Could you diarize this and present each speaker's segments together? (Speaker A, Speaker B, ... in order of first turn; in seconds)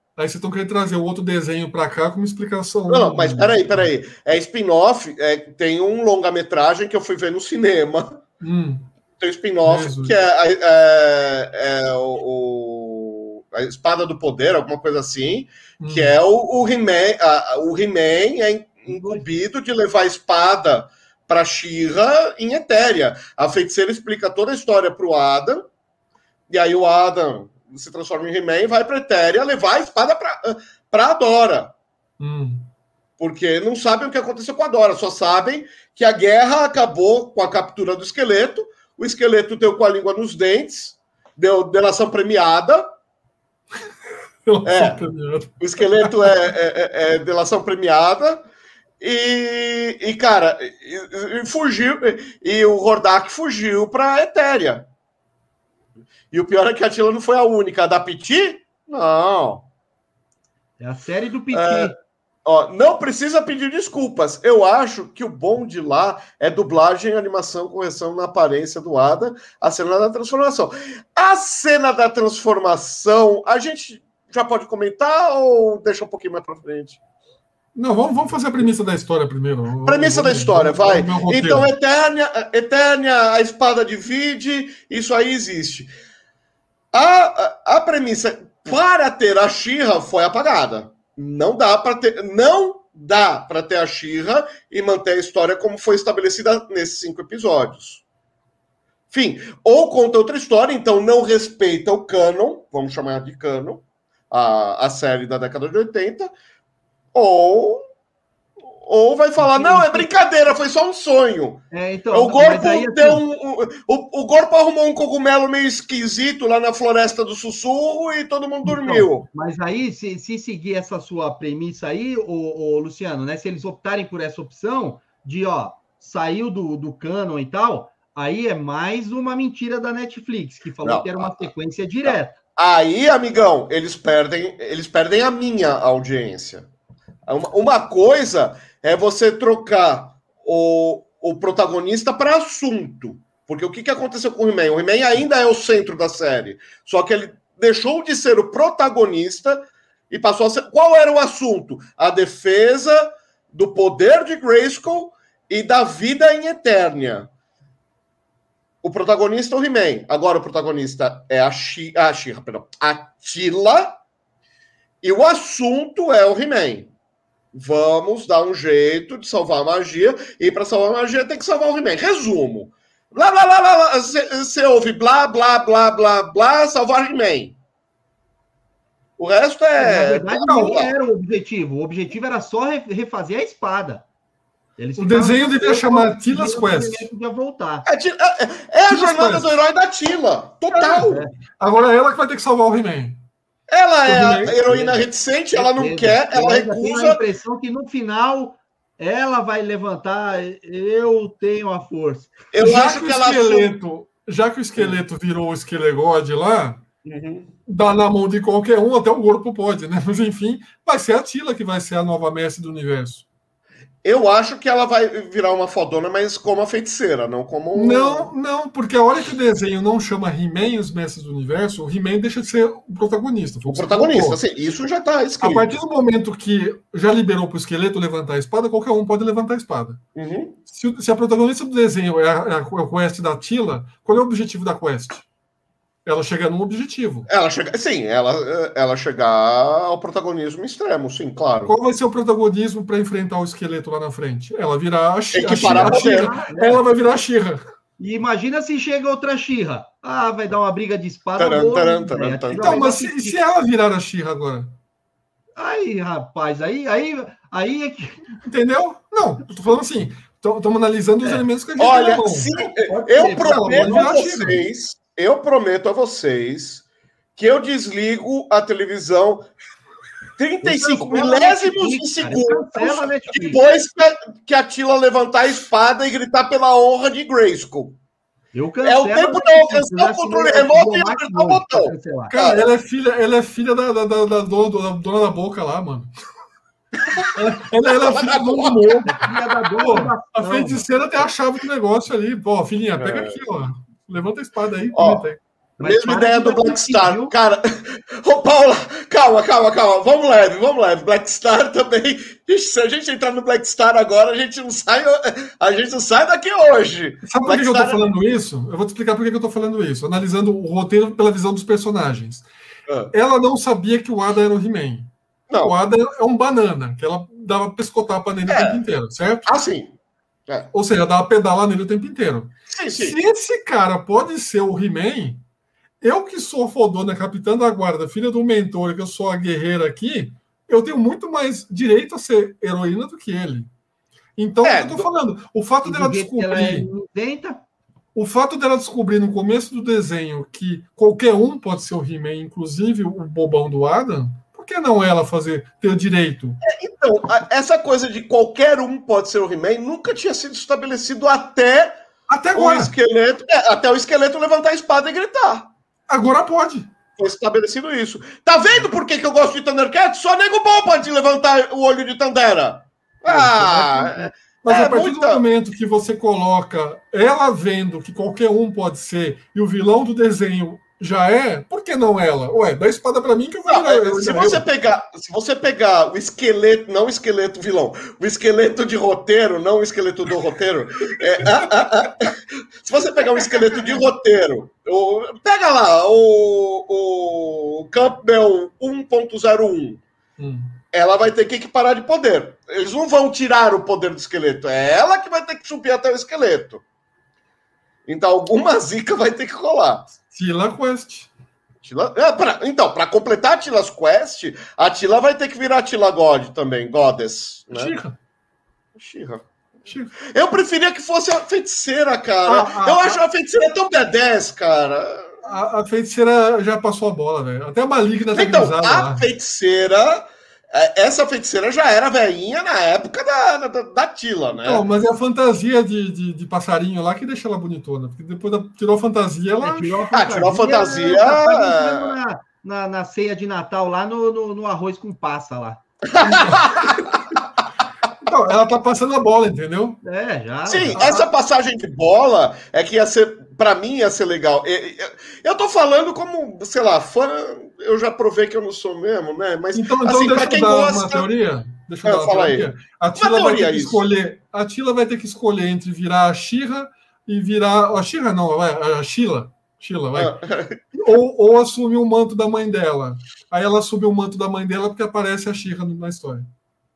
Speaker A: 0.2-3.9, 8.4-8.9, 9.6-10.2, 15.8-16.1, 32.2-32.7, 44.5-46.5, 77.8-81.7, 180.5-180.8, 185.0-187.1, 188.9-189.5, 190.6-193.2, 194.1-195.0, 202.6-206.8, 207.7-213.2, 217.7-224.4, 225.4-230.0, 230.7-235.3, 236.1-237.3, 241.7-247.7, 252.6-254.8, 258.4-262.5, 263.3-264.6, 282.3-286.1, 287.1-295.4, 307.2-312.5, 313.1-319.5, 320.7-325.4, 326.0-333.7, 334.4-336.9, 338.1-346.6, 352.3-352.9, 356.1-356.9, 363.3-374.6, 381.4-381.7, 390.4-390.8, 400.3-401.3, 407.7-408.2, 409.9-410.1, 412.5-413.2, 415.4-419.3, 424.6-430.1, 436.2-436.9, 438.2-440.0, 441.0-441.2, 449.7-460.3, 460.9-466.5
Speaker B: 2.9-8.2, 9.2-25.6, 26.5-31.7, 33.2-42.9, 44.6-45.0, 45.6-48.4, 49.0-54.9, 56.3-59.7, 61.5-61.9, 62.5-77.0, 79.8-85.9, 86.9-98.0, 99.1-106.3, 107.1-107.8, 108.8-119.3, 130.8-131.5, 132.1-136.7, 137.3-157.3, 158.8-164.0, 165.0-166.9, 167.5-177.6, 179.2-180.9, 187.9-191.2, 193.7-197.2, 202.5-203.7, 207.1-207.5, 214.0-218.3, 223.7-225.7, 230.2-230.6, 237.3-241.7, 245.3-246.3, 251.4-252.9, 261.8-266.9, 267.4-269.5, 270.4-278.0, 278.8-282.6, 287.3-289.4, 293.0-293.4, 294.9-295.3, 295.8-308.1, 312.9-313.1, 315.5-315.8, 318.5-318.8, 319.5-319.9, 322.7-323.2, 334.6-335.1, 346.6-351.9, 352.5-355.7, 357.2-365.4, 373.7-390.0, 390.9-396.8, 398.1-400.1, 401.8-408.0, 409.0-409.4, 410.2-415.5, 418.3-424.9, 430.1-432.1, 436.1-437.1, 440.7-451.3, 452.0-454.0, 460.1-460.8
Speaker C: 18.9-19.3, 60.8-61.9, 109.4-110.1, 111.7-113.2, 118.6-132.4, 179.8-184.1, 184.8-187.9, 195.5-202.3, 245.7-246.8, 248.0-253.4, 255.6-258.3, 262.9-264.2, 270.6-273.6, 278.5-282.4, 289.1-290.9, 295.8-297.3, 335.8-337.6, 429.6-435.8, 440.0-441.3